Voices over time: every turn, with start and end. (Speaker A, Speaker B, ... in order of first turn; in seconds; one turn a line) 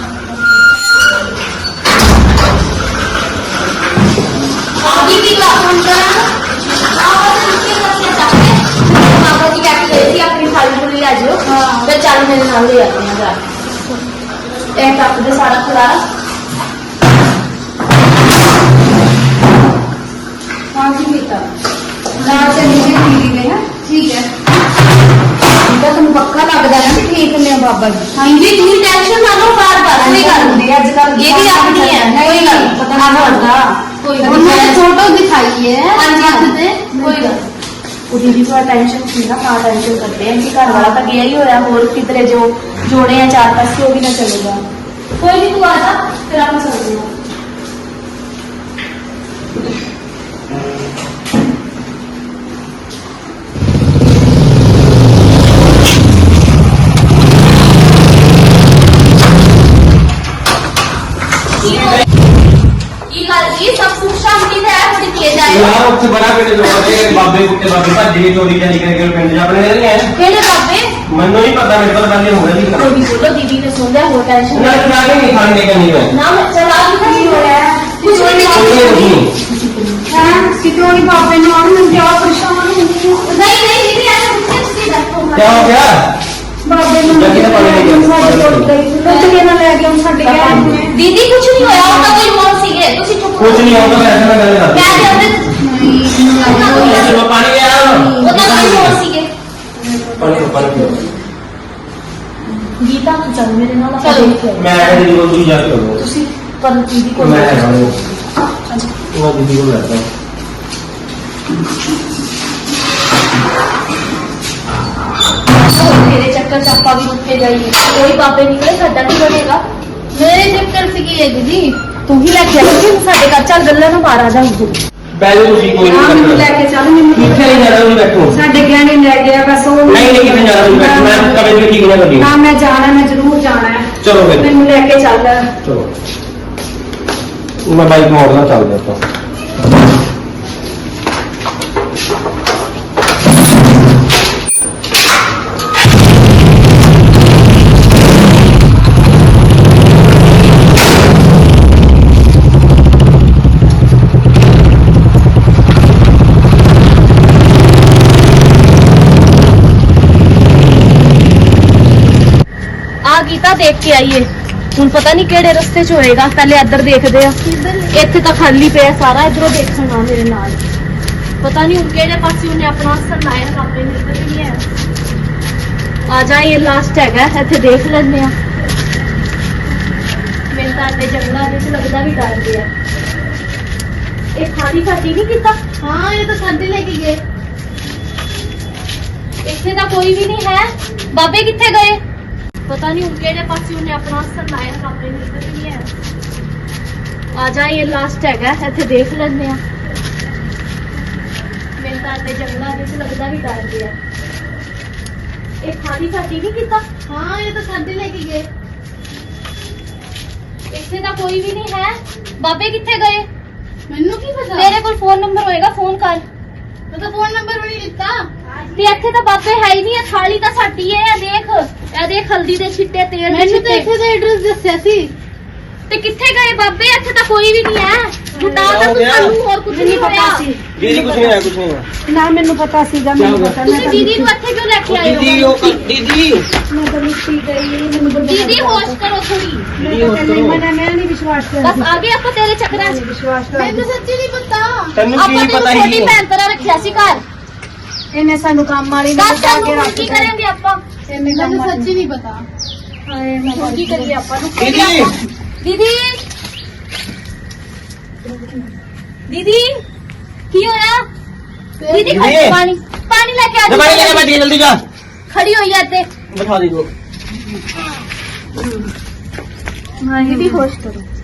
Speaker A: 4.8-6.3
Speaker A: 6.9-13.4
Speaker A: 14.7-16.0
Speaker B: 20.7-21.5
Speaker B: 22.2-24.2
Speaker B: 25.6-28.1
Speaker A: 28.1-33.5
Speaker B: 29.9-34.8
Speaker C: 34.0-37.0
Speaker A: 34.2-34.8
Speaker A: 35.9-37.4
Speaker B: 37.0-37.3
Speaker A: 38.1-44.6
Speaker C: 40.7-41.0
Speaker A: 45.1-47.1
Speaker A: 61.6-62.0
Speaker A: 63.1-65.8
Speaker D: 65.4-70.1
Speaker A: 66.7-67.0
Speaker A: 70.1-70.9
Speaker D: 71.1-72.9
Speaker A: 72.7-74.9
Speaker D: 74.5-76.1
Speaker A: 76.1-80.5
Speaker B: 77.0-78.5
Speaker D: 78.5-79.3
Speaker B: 80.1-83.5
Speaker A: 83.2-85.8
Speaker D: 85.3-86.0
Speaker B: 86.6-91.0
Speaker D: 87.1-88.7
Speaker A: 89.0-89.5
Speaker A: 90.2-94.1
Speaker D: 90.5-90.8
Speaker B: 91.6-92.1
Speaker D: 93.4-95.3
Speaker A: 94.7-95.5
Speaker B: 95.6-97.2
Speaker D: 96.4-99.0
Speaker A: 96.4-97.1
Speaker B: 97.8-98.5
Speaker A: 98.2-99.3
Speaker B: 99.8-101.2
Speaker D: 100.2-101.0
Speaker A: 102.8-105.0
Speaker D: 104.5-106.0
Speaker A: 106.0-108.2
Speaker D: 107.2-107.9
Speaker D: 109.1-110.1
Speaker A: 115.5-119.6
Speaker C: 120.1-121.8
Speaker A: 122.0-124.8
Speaker D: 125.1-126.5
Speaker B: 125.8-127.7
Speaker D: 127.1-128.4
Speaker B: 128.2-131.5
Speaker D: 129.9-132.3
Speaker B: 132.2-135.5
Speaker D: 134.0-134.5
Speaker D: 135.6-135.9
Speaker D: 137.6-139.0
Speaker A: 163.0-167.4
Speaker C: 167.4-168.1
Speaker A: 167.9-170.6
Speaker A: 171.4-174.6
Speaker A: 176.1-178.3
Speaker A: 180.5-182.7
Speaker A: 184.3-185.6
Speaker C: 185.8-187.2
Speaker A: 189.4-192.0
Speaker A: 192.7-195.9
Speaker A: 197.3-199.6
Speaker A: 201.8-203.9
Speaker A: 205.6-206.8
Speaker C: 207.1-208.4
Speaker A: 210.7-213.3
Speaker C: 213.9-214.8
Speaker A: 214.6-216.2
Speaker C: 216.9-218.3
Speaker A: 218.7-223.8
Speaker C: 223.3-225.1
Speaker A: 225.9-230.5
Speaker B: 228.4-228.7
Speaker D: 228.6-229.3
Speaker B: 229.7-231.4
Speaker D: 230.8-231.8
Speaker B: 232.1-234.3
Speaker D: 233.2-233.6
Speaker A: 233.6-235.8
Speaker D: 234.9-236.4
Speaker B: 236.7-239.0
Speaker A: 238.3-239.7
Speaker D: 239.8-240.6
Speaker B: 239.8-241.9
Speaker A: 241.6-243.0
Speaker B: 242.7-243.9
Speaker C: 243.5-245.0
Speaker D: 245.0-246.1
Speaker A: 245.1-247.2
Speaker B: 248.1-250.3
Speaker A: 249.2-250.8
Speaker B: 251.1-251.9
Speaker C: 251.2-252.4
Speaker B: 253.1-254.2
Speaker A: 253.4-255.1
Speaker D: 254.6-255.1
Speaker A: 255.6-256.2
Speaker A: 259.3-259.8
Speaker A: 260.5-261.0
Speaker C: 261.8-262.2
Speaker A: 261.9-264.3
Speaker D: 262.1-262.6
Speaker D: 263.7-264.8
Speaker A: 265.3-266.1
Speaker D: 266.3-266.9
Speaker A: 270.0-271.0
Speaker B: 270.2-270.6